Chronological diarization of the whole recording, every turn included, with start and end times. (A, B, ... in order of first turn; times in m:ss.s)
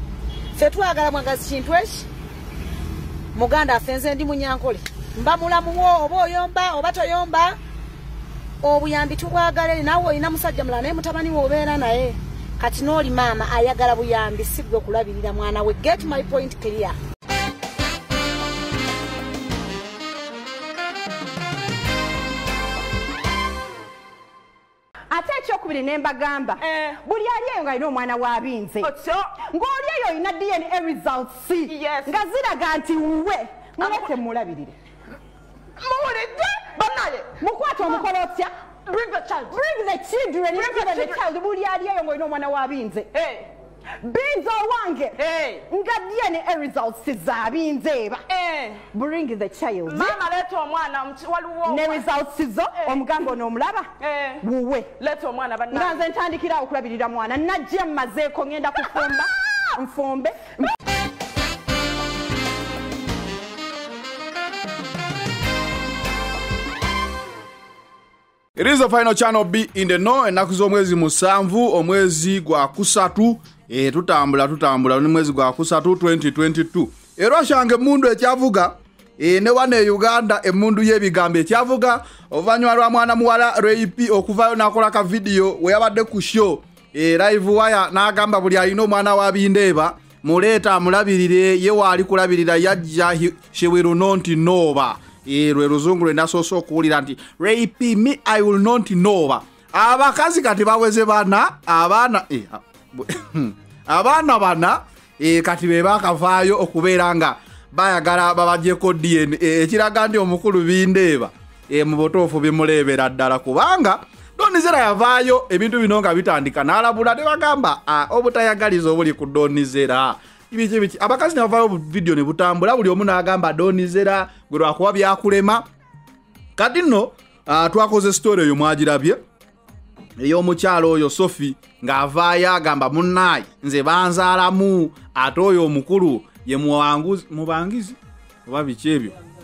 0:00.5-0:02.1 A
0:03.3-0:07.6 A
0:08.6-0:17.0 A
0:25.1-0:34.7 B
0:26.6-0:27.0 C
0:28.8-0:29.3 C
0:31.7-0:32.1 C
0:33.8-0:34.1 C
0:35.8-0:37.3 C
0:37.3-0:38.5 B
0:38.9-0:39.5 C
0:39.5-0:43.1 B
0:40.5-0:41.2 C
0:43.1-0:43.5 C
0:44.0-0:48.2 B
0:45.2-0:45.6 C
0:48.3-0:48.8 C
0:48.9-0:50.2 B
0:49.9-0:52.1 C
0:51.6-0:55.0 B
0:52.8-0:53.0 C
0:54.0-0:54.4 C
0:55.0-0:56.0 C
0:55.7-1:00.7 B
1:08.6-2:05.7 D
2:06.6-2:09.2 D
2:10.2-2:19.1 D